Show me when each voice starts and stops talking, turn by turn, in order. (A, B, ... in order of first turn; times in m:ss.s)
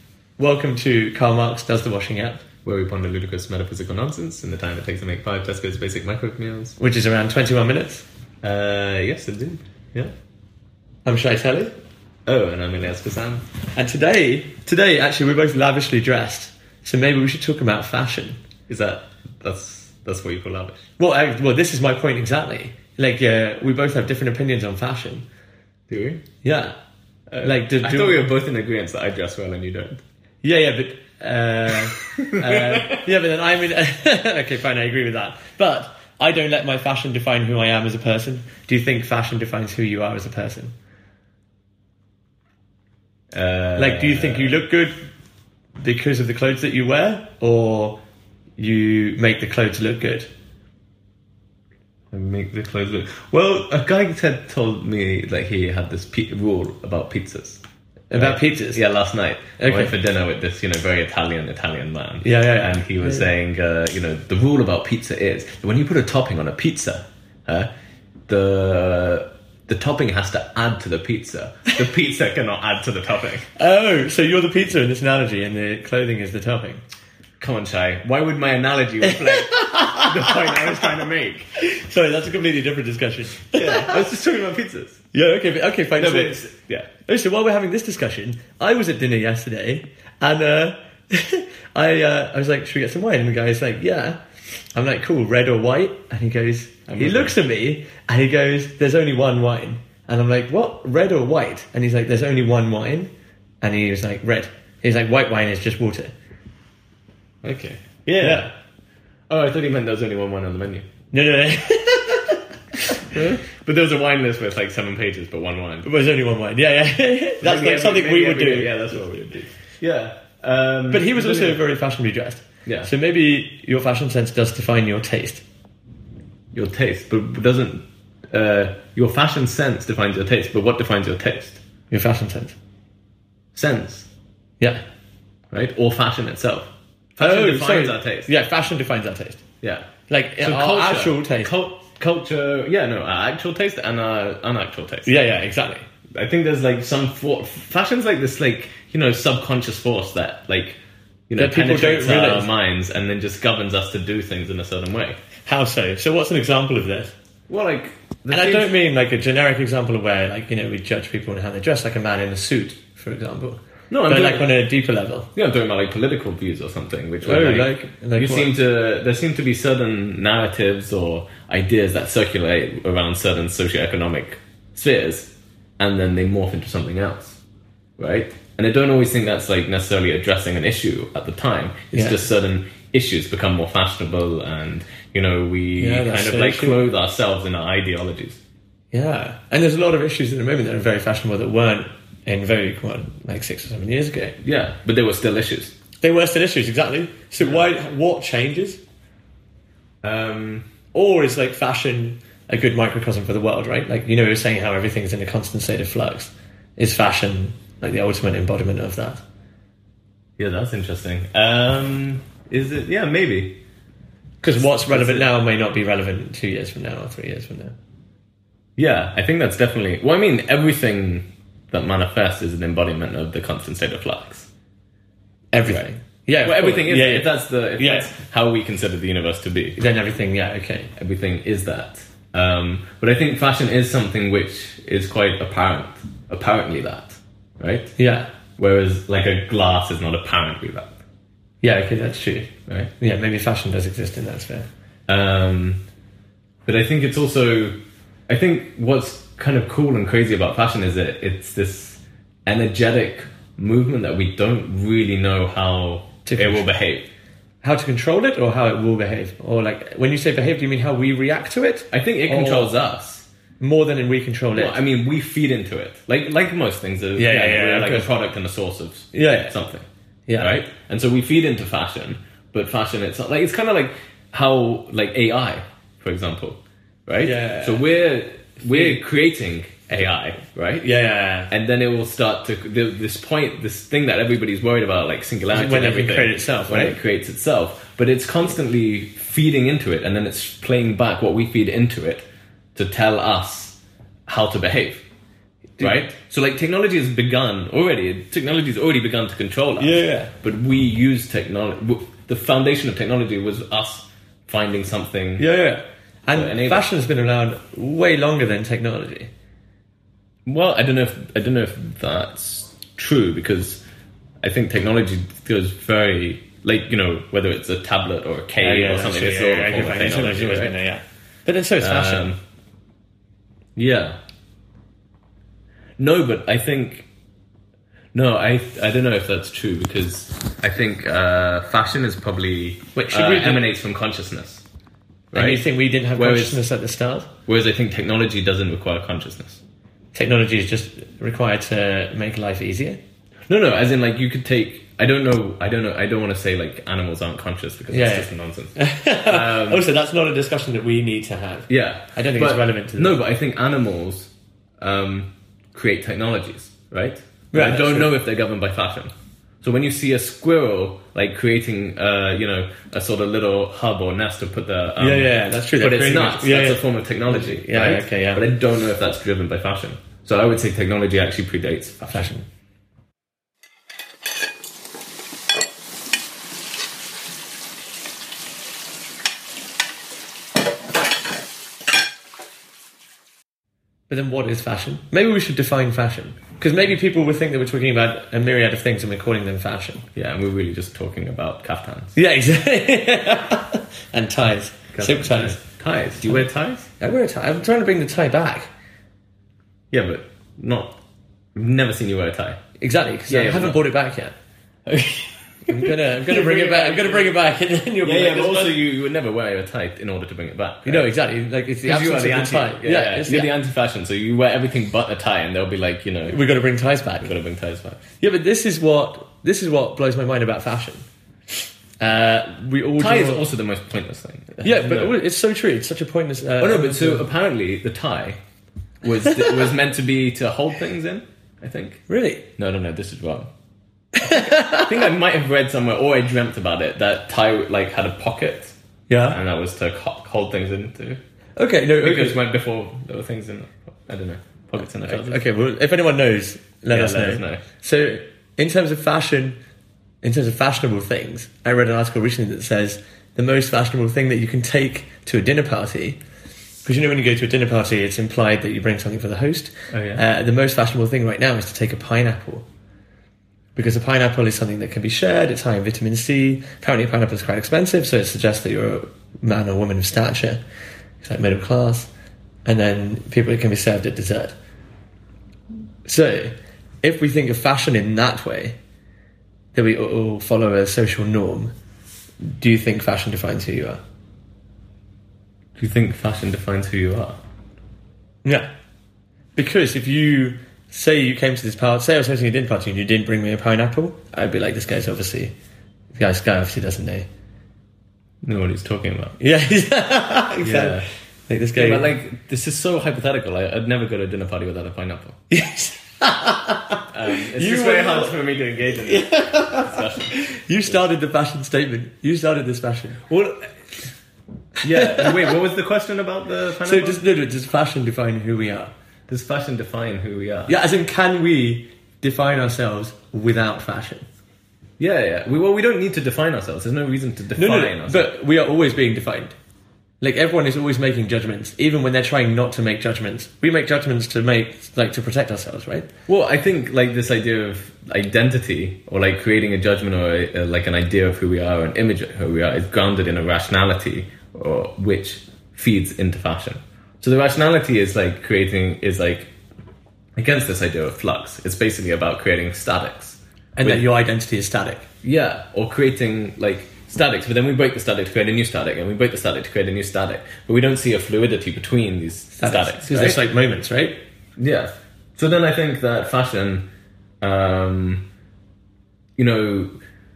0:00.4-0:02.4 A
0:02.6-0:06.8 B
0:06.8-0:08.1 A
0:08.4-0:10.1 B
0:11.0-0:11.8 A
0:12.3-0:13.4 B
0:13.8-0:18.4 A
0:18.7-0:20.8 B
0:21.0-0:25.3 A
0:25.9-0:26.2 B
0:26.4-0:26.8 A
0:27.3-0:30.0 B
0:27.4-0:28.3 A
0:30.4-0:40.7 A
0:32.0-0:33.0 B
0:43.3-0:44.6 B
0:43.8-0:45.0 A
0:45.8-0:48.0 A
0:48.6-0:50.3 A
0:52.1-1:07.7 B
0:58.1-0:58.8 A
0:59.6-0:59.9 A
1:02.2-1:03.3 A
1:08.3-1:13.5 B
1:13.6-1:16.8 A
1:17.4-1:21.5 B
1:19.1-1:20.9 A
1:21.6-1:24.1 A
1:23.5-1:25.0 B
1:25.1-1:26.4 A
1:26.0-1:26.9 B
1:27.1-1:34.2 A
1:34.7-1:43.1 A
1:36.9-1:37.4 B
1:43.6-1:46.1 A
1:47.4-1:48.5 B
1:48.2-1:48.5 A
1:49.3-1:50.9 B
1:51.1-1:53.0 A
1:53.1-1:55.9 B
1:55.8-1:59.3 A
1:57.4-2:01.6 B
2:00.9-2:05.4 A
2:02.7-2:02.9 B
2:06.5-2:11.6 B
2:11.9-2:12.6 A
2:13.5-2:14.1 B
2:15.5-2:18.3 B
2:17.2-2:19.4 A
2:19.6-2:19.9 B
2:20.1-2:21.5 A
2:20.4-2:25.2 B
2:25.1-2:25.9 A
2:26.1-2:35.2 B
2:31.4-2:32.5 A
2:35.5-2:37.1 A
2:37.5-2:38.8 B
2:38.3-2:45.3 A
2:43.9-2:44.5 B
2:45.4-2:57.4 B
2:47.2-2:48.5 A
2:58.0-3:08.4 B
3:01.9-3:02.2 A
3:05.8-3:06.9 A
3:08.9-3:14.4 A
3:14.4-3:15.7 B
3:16.0-3:18.8 A
3:17.4-3:17.7 B
3:20.0-3:20.7 B
3:20.9-3:29.2 A
3:30.4-3:33.6 B
3:34.4-3:37.8 A
3:34.6-3:35.3 B
3:38.8-3:44.5 B
3:45.5-3:48.1 A
3:45.6-3:45.9 B
3:46.4-3:49.8 B
3:49.8-3:50.9 A
3:51.0-3:57.9 B
3:58.0-3:58.3 A
3:58.6-4:01.0 B
4:01.6-4:04.7 A
4:05.1-4:05.8 B
4:06.7-4:07.8 B
4:08.3-4:17.1 B
4:16.2-4:16.7 A
4:17.6-4:22.7 A
4:21.9-4:23.3 B
4:23.6-4:24.8 A
4:24.6-4:29.9 B
4:27.2-4:28.1 A
4:29.1-4:29.6 A
4:30.3-4:30.6 A
4:30.4-4:40.9 B
4:37.2-4:37.8 A
4:38.7-4:39.0 A
4:40.8-4:41.5 A
4:41.5-4:55.0 B
4:45.5-4:47.0 A
4:55.8-5:05.4 B
4:59.8-5:00.3 A
5:05.4-5:09.3 A
5:06.3-5:06.9 B
5:10.5-5:13.8 B
5:14.4-5:20.8 B
5:18.6-5:22.3 A
5:21.8-5:22.4 B
5:23.8-5:24.2 B
5:26.0-5:27.1 B
5:28.1-5:34.6 B
5:33.0-5:33.6 A
5:35.3-5:35.6 B
5:35.3-5:37.3 A
5:36.2-5:36.6 B
5:37.5-5:39.6 B
5:40.1-5:43.0 A
5:43.5-5:48.7 B
5:47.9-5:53.2 A
5:49.3-5:49.9 B
5:51.7-5:59.1 B
5:57.5-5:58.1 A
5:59.6-6:12.1 B
6:05.0-6:08.4 A
6:12.0-6:12.5 A
6:24.1-6:30.1 A
6:30.2-6:32.2 B
6:32.2-6:35.6 A
6:34.9-6:36.9 B
6:37.0-6:38.7 A
6:39.9-6:41.0 B
6:41.6-6:42.6 B
6:42.8-6:44.4 A
6:43.3-6:43.8 B
6:44.9-6:47.3 B
6:45.7-6:48.8 A
6:48.0-6:51.1 B
6:50.9-6:53.5 A
6:51.8-6:56.4 B
6:56.3-6:57.3 A
6:57.2-6:58.0 B
6:58.2-7:01.0 A
7:02.0-7:03.4 A
7:03.0-7:05.2 B
7:04.6-7:07.2 A
7:06.6-7:08.4 B
7:09.0-7:12.0 B
7:12.1-7:12.5 A
7:12.6-7:13.5 B
7:14.2-7:15.0 A
7:14.3-7:18.7 B
7:19.1-7:19.4 A
7:19.3-7:21.2 B
7:21.6-7:22.4 A
7:22.0-7:25.4 B
7:25.0-7:29.6 A
7:26.9-7:27.6 B
7:30.2-7:36.2 A
7:36.8-7:42.6 A
7:39.9-7:40.2 B
7:43.8-7:50.6 A
7:51.2-7:52.1 A
7:52.6-7:54.6 A
7:56.1-7:58.8 A
7:59.8-8:01.7 A
8:02.4-8:04.0 A
8:05.8-8:07.4 B
8:09.6-8:15.5 A
8:16.1-8:17.3 A
8:18.4-8:19.4 B
8:19.4-8:22.1 A
8:20.6-8:21.1 B
8:21.8-8:25.4 B
8:25.5-8:28.4 A
8:27.1-8:30.9 B
8:29.0-8:33.3 A
8:33.3-8:33.7 B
8:34.8-8:35.5 A
8:34.8-8:37.2 B
8:36.8-8:38.9 A
8:39.3-8:40.8 B
8:40.7-8:44.3 A
8:45.0-8:48.3 B
8:47.6-8:49.6 A
8:50.2-8:56.1 A
8:56.3-9:09.5 B
9:10.4-9:14.0 B
9:13.8-9:15.1 A
9:15.2-9:23.4 B
9:22.6-9:24.2 A
9:24.6-9:26.9 B
9:27.4-9:28.2 B
9:29.4-9:30.0 B